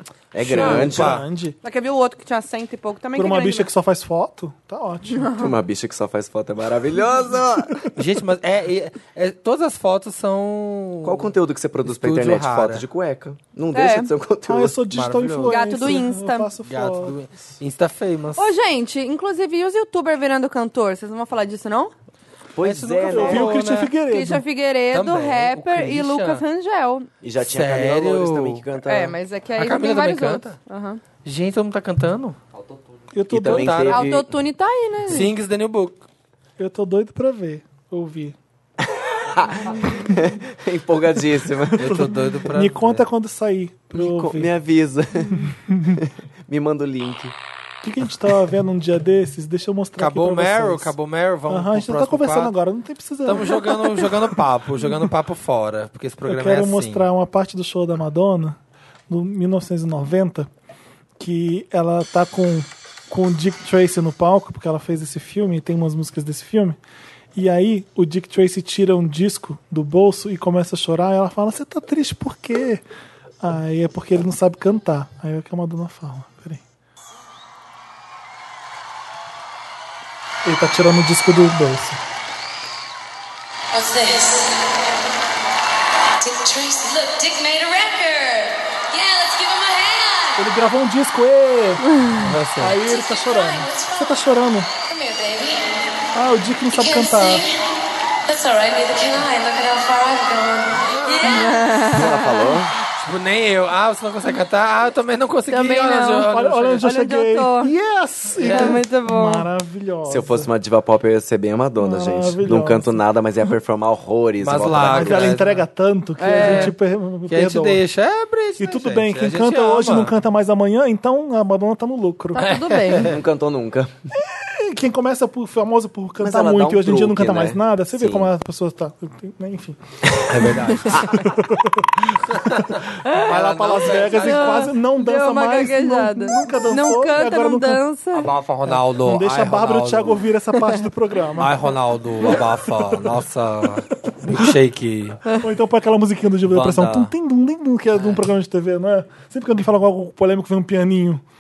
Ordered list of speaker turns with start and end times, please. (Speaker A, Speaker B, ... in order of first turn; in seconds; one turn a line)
Speaker A: 0.3-1.2
Speaker B: 0.4-1.6
Speaker C: 0.5-1.2
Speaker D: 1.6-3.7
Speaker B: 3.1-5.3
Speaker D: 5.1-5.5
Speaker A: 5.4-7.8
Speaker C: 8.0-11.3
Speaker A: 11.0-14.8
Speaker C: 11.8-12.8
Speaker D: 13.7-14.1
Speaker B: 14.5-17.2
Speaker C: 14.9-15.7
Speaker D: 15.5-16.5
Speaker C: 16.6-18.5
Speaker D: 18.4-21.9
Speaker A: 22.5-23.5
Speaker C: 22.6-23.9
Speaker B: 23.1-24.4
Speaker D: 24.1-27.1
Speaker C: 24.9-26.4
Speaker A: 27.2-29.1
Speaker C: 27.4-28.6
Speaker D: 28.8-31.0
Speaker C: 29.6-30.6
Speaker C: 31.2-32.4
Speaker B: 33.1-33.9
Speaker A: 33.3-34.3
Speaker C: 33.4-34.1
Speaker D: 33.9-35.3
Speaker C: 35.1-36.0
Speaker B: 36.6-38.4
Speaker A: 39.3-42.0
Speaker B: 41.7-44.5
Speaker C: 41.8-43.0
Speaker A: 43.9-47.3
Speaker B: 45.4-46.0
Speaker B: 47.8-50.9
Speaker C: 50.0-52.5
Speaker B: 51.5-54.1
Speaker C: 53.2-57.1
Speaker B: 54.8-55.0
Speaker B: 56.3-58.6
Speaker B: 59.1-60.5
Speaker B: 61.2-66.8
Speaker B: 67.3-72.8
Speaker B: 73.4-76.6
Speaker B: 80.4-82.0
Speaker E: 83.7-84.7
Speaker E: 86.2-90.4
Speaker B: 90.4-92.0
Speaker C: 92.2-92.8
Speaker B: 92.6-94.7
Speaker E: 92.8-94.1
Speaker E: 94.8-95.7
Speaker B: 96.1-97.4
Speaker E: 96.7-97.6
Speaker E: 98.3-101.5
Speaker D: 101.0-102.5
Speaker A: 101.8-102.7
Speaker C: 103.0-106.8
Speaker D: 105.5-107.7
Speaker B: 106.3-110.5
Speaker C: 108.4-108.8
Speaker D: 108.5-109.5
Speaker A: 110.0-115.4
Speaker B: 111.8-113.0
Speaker C: 114.4-115.7
Speaker B: 114.8-117.8
Speaker D: 116.2-116.7
Speaker C: 116.3-116.7
Speaker C: 117.3-120.1
Speaker B: 118.6-122.4
Speaker D: 122.3-123.1
Speaker C: 122.4-123.2
Speaker A: 122.9-123.9
Speaker B: 124.1-137.8
Speaker A: 126.2-128.3
Speaker C: 130.3-131.2
Speaker C: 132.3-134.7
Speaker D: 134.1-138.3
Speaker C: 138.1-140.2
Speaker B: 138.6-143.1
Speaker C: 141.4-145.2
Speaker B: 145.3-151.2
Speaker C: 146.5-147.1
Speaker C: 147.9-148.2